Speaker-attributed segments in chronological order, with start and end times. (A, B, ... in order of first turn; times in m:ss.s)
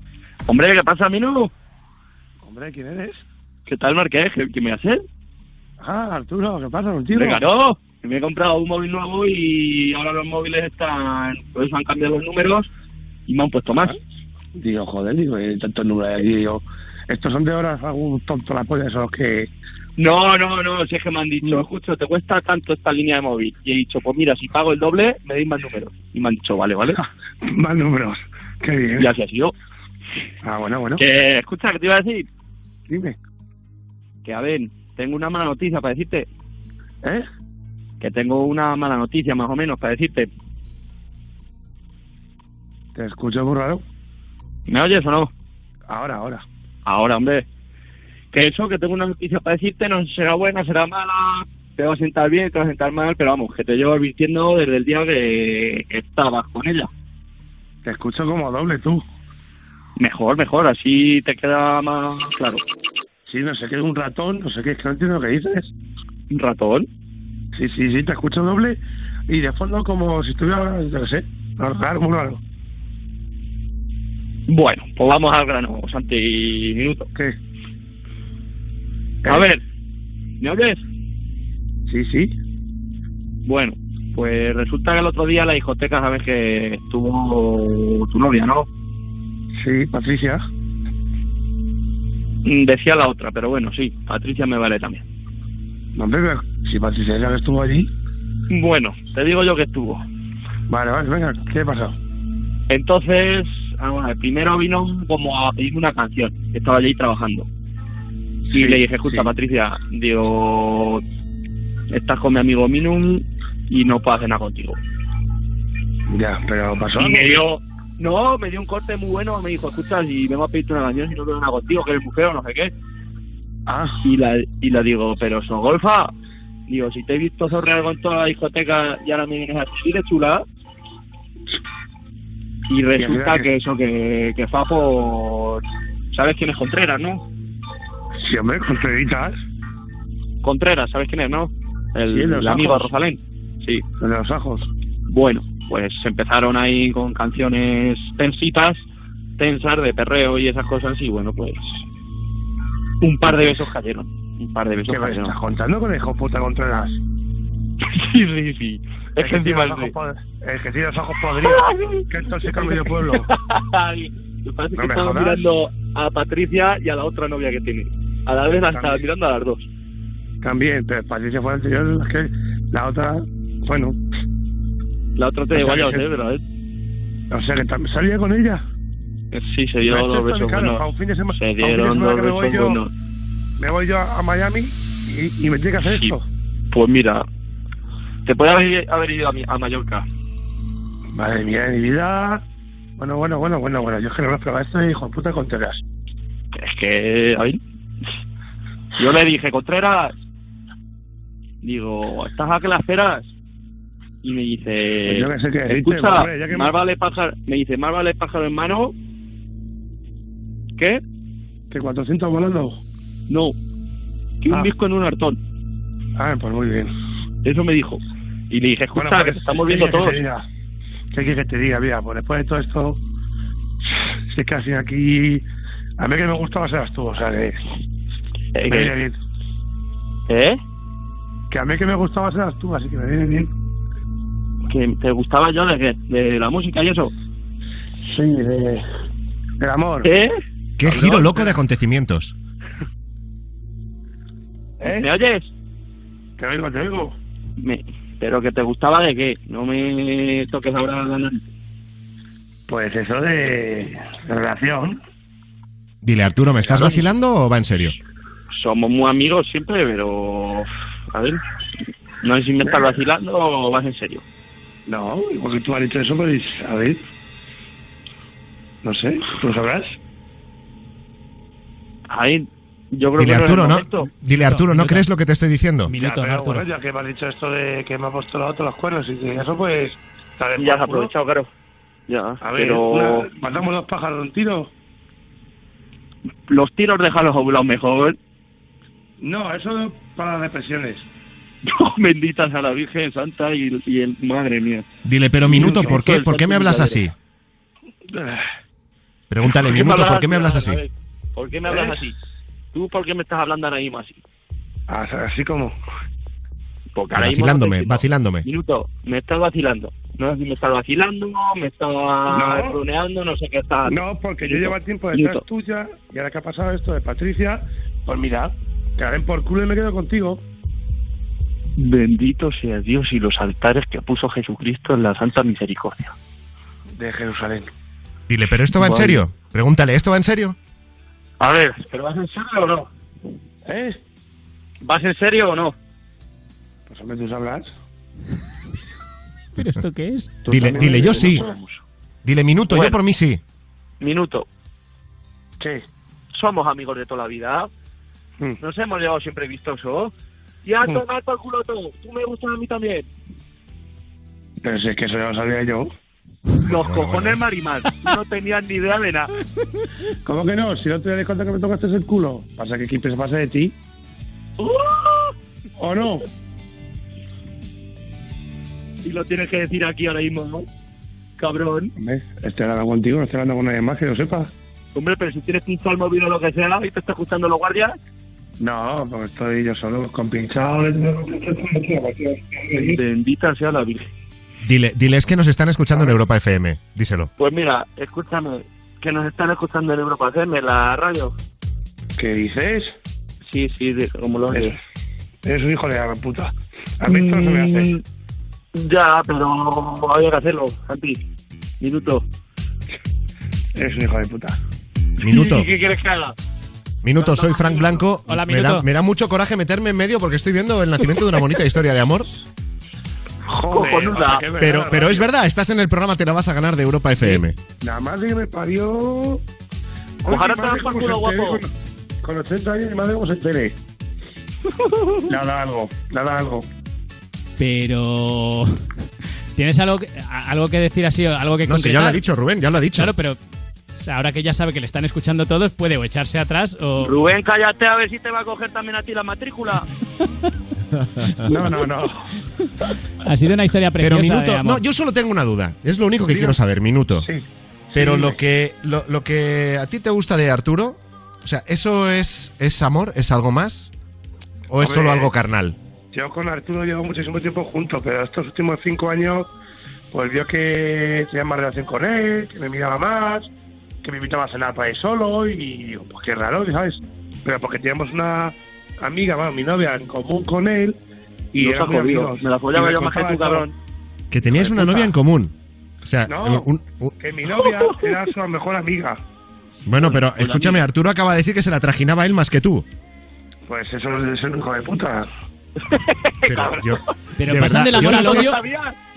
0:00.5-0:01.5 A
0:02.4-0:03.2 B
0:03.6-0:05.0 A
0:05.8-0:07.4 B
0:07.1-0:12.7 A
0:13.3-0:14.0 A
0:14.6-0:19.5 B
0:20.0-0:27.0 A
0:27.4-0:29.1 B
0:29.0-0:29.5 A
0:30.4-0:31.0 B
0:31.0-0:32.3 A
0:32.9-0:33.2 B
0:34.2-0:36.3 A
0:38.0-0:40.3 A
0:42.9-0:43.8 B
0:44.7-0:45.3 A
0:45.9-0:46.4 B
0:46.8-0:47.4 A
0:48.3-0:56.9 A
0:57.8-0:59.0 B
1:00.0-1:02.6 A
1:03.3-1:05.7 B
1:06.3-1:06.9 A
1:07.5-1:12.4 B
1:14.5-1:17.1 A
1:19.2-1:19.6 A
1:20.4-1:20.8 A
1:21.9-1:22.3 B
1:23.4-1:28.7 A
1:29.6-1:30.4 B
1:32.4-1:35.0 A
1:36.0-1:37.9 B
1:38.5-1:40.0 A
1:40.7-1:42.0 B
1:42.7-1:47.5 A
1:48.5-1:49.3 B
1:48.5-1:51.0 A
1:51.9-1:54.8 A
1:56.1-1:57.4 B
1:57.0-2:02.7 A
2:03.7-2:04.0 B
2:04.0-2:06.1 A
2:06.7-2:10.4 A
2:12.7-2:17.2 A
2:13.0-2:13.5 B
2:18.2-2:19.3 B
2:20.4-2:23.8 A
2:22.0-2:22.9 B
2:24.0-2:24.7 B
2:25.1-2:28.8 A
2:29.4-2:31.8 A
2:33.0-2:35.3 A
2:33.2-2:33.6 B
2:34.9-2:37.0 B
2:37.8-2:39.9 A
2:39.2-2:43.3 B
2:41.4-2:42.0 A
2:42.6-2:49.7 A
2:44.7-2:45.5 B
2:48.7-2:49.0 B
2:50.4-2:54.0 B
2:55.2-2:56.4 A
2:55.5-2:56.0 B
2:57.3-2:58.6 B
2:59.3-3:02.9 A
2:59.8-3:02.8 B
3:03.6-3:06.2 B
3:05.8-3:06.2 A
3:06.7-3:07.2 A
3:08.2-3:10.0 A
3:11.1-3:12.4 B
3:13.0-3:15.8 B
3:16.5-3:17.6 A
3:19.0-3:20.1 A
3:21.6-3:23.3 A
3:24.2-3:28.9 A
3:25.0-3:26.7 B
3:30.8-3:31.0 A
3:31.7-3:32.8 B
3:33.3-3:33.6 A
3:34.4-3:35.4 A
3:36.2-3:36.9 B
3:37.4-3:40.2 A
3:38.9-3:40.4 B
3:41.1-3:43.0 B
3:43.9-3:45.4 B
3:46.0-3:47.6 B
3:48.5-3:48.9 A
3:48.6-3:49.2 B
3:50.3-3:50.6 A
3:51.5-3:53.5 B
3:54.7-3:57.1 A
3:58.0-3:58.8 B
3:59.6-4:00.1 B
4:00.0-4:00.4 A
4:00.8-4:02.3 C
4:00.8-4:01.6 B
4:04.8-4:05.1 B
4:04.8-4:05.5 A
4:06.4-4:07.2 B
4:07.6-4:11.4 A
4:12.7-4:15.0 B
4:16.0-4:17.9 C
4:16.6-4:17.0 B
4:18.5-4:21.4 A
4:22.2-4:24.2 A
4:24.9-4:27.0 B
4:28.8-4:29.9 B
4:32.1-4:34.1 A
4:33.2-4:35.9 C
4:34.4-4:35.0 D
4:35.8-4:36.7 D
4:36.0-4:41.1 B
4:40.6-4:41.5 A
4:42.1-4:43.3 A
4:42.4-4:44.7 B
4:46.5-4:48.2 A
4:49.2-4:51.0 B
4:51.6-4:54.8 A
4:55.0-4:57.1 C
4:55.4-4:57.1 A
4:55.5-4:56.0 B
4:58.1-4:58.5 B
4:59.3-5:00.8 C
4:59.4-5:02.2 A
5:01.6-5:02.0 B
5:02.7-5:04.2 A
5:04.9-5:05.7 B
5:06.9-5:15.4 A
5:07.1-5:08.4 C
5:12.3-5:12.8 B
5:13.8-5:20.4 B
5:21.8-5:26.1 A
5:27.0-5:27.7 B
5:28.3-5:30.6 C
5:28.8-5:29.2 A
5:31.4-5:32.9 A
5:33.6-5:34.0 B
5:34.8-5:35.7 A
5:36.9-5:37.7 B
5:39.6-5:40.4 D
5:40.4-5:41.8 A
5:40.5-5:41.4 C
5:40.6-5:41.6 B
5:42.2-5:43.4 C
5:42.7-5:43.0 A
5:44.0-5:44.5 A
5:46.3-5:47.7 A
5:48.6-5:50.1 A
5:50.6-5:53.1 A
5:54.6-5:55.9 B
5:56.6-5:59.3 A
5:56.7-5:57.4 C
6:00.2-6:03.7 B
6:04.6-6:05.3 A
6:05.8-6:06.3 B
6:09.0-6:10.7 A
6:11.4-6:11.9 A
6:12.0-6:14.5 B
6:14.9-6:18.0 A
6:18.6-6:23.0 B
6:22.8-6:24.1 A
6:24.6-6:27.3 C
6:25.9-6:26.2 B
6:27.4-6:31.3 A
6:32.2-6:32.9 B
6:33.5-6:34.8 A
6:34.5-6:34.8 B
6:35.4-6:37.9 B
6:37.0-6:38.0 A
6:38.7-6:41.2 A
6:41.8-6:42.2 A
6:43.7-6:44.6 B
6:45.2-6:46.4 A
6:45.2-6:45.7 C
6:47.0-6:52.3 C
6:47.1-6:48.0 A
6:48.3-6:48.8 D
6:53.5-6:55.3 B
6:53.5-6:54.4 A
6:54.6-6:57.6 C
6:57.8-6:59.4 B
7:00.2-7:01.7 B
7:00.2-7:01.6 A
7:02.2-7:03.8 B
7:04.8-7:05.3 A
7:05.3-7:06.6 B
7:07.6-7:08.7 D
7:09.6-7:12.2 D
7:11.6-7:13.1 C
7:12.9-7:13.4 D
7:14.0-7:17.2 D
7:17.0-7:19.9 A
7:21.0-7:21.5 C
7:21.4-7:22.3 B
7:23.2-7:24.8 D
7:24.0-7:27.3 C
7:26.2-7:26.6 B
7:27.2-7:28.4 B
7:27.9-7:33.9 C
7:34.7-7:35.8 C
7:34.8-7:35.3 B
7:36.1-7:39.5 B
7:40.1-7:43.5 B
7:44.0-7:51.0 B
7:51.5-7:53.7 B
7:51.6-7:53.8 A
7:54.3-7:57.2 C
7:54.5-7:55.1 B
7:56.2-7:59.2 B
7:57.5-7:58.2 A
7:59.8-8:02.8 C
8:00.0-8:00.8 A
8:03.7-8:05.3 B
8:05.8-8:07.1 A
8:06.4-8:08.5 C
8:07.4-8:08.6 D
8:07.9-8:09.0 A